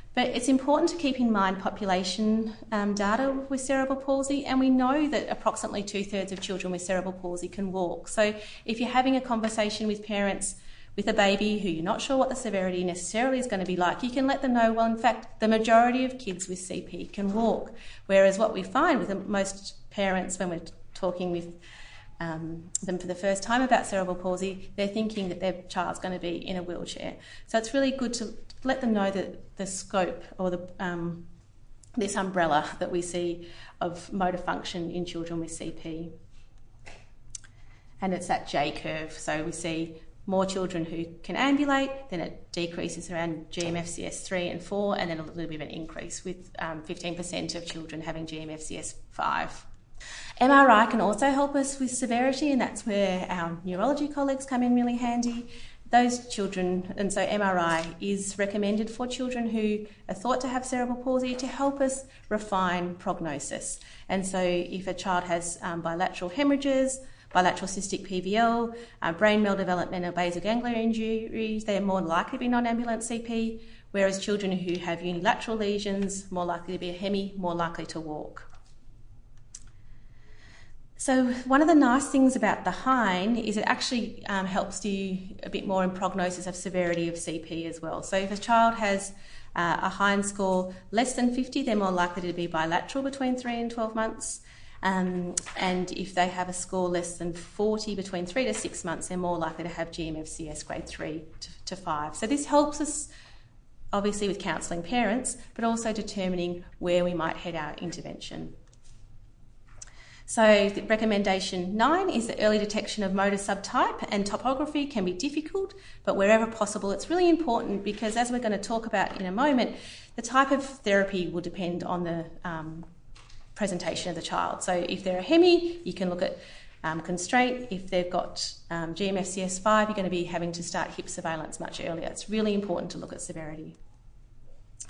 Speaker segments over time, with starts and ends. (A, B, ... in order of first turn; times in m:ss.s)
0:00.2-0:21.6 A
0:22.2-0:31.3 A
0:32.0-0:36.2 A
0:38.0-0:49.7 A
0:50.4-1:18.5 A
1:21.0-1:43.1 A
1:43.9-1:48.6 A
1:50.3-2:02.9 A
2:03.6-2:13.8 A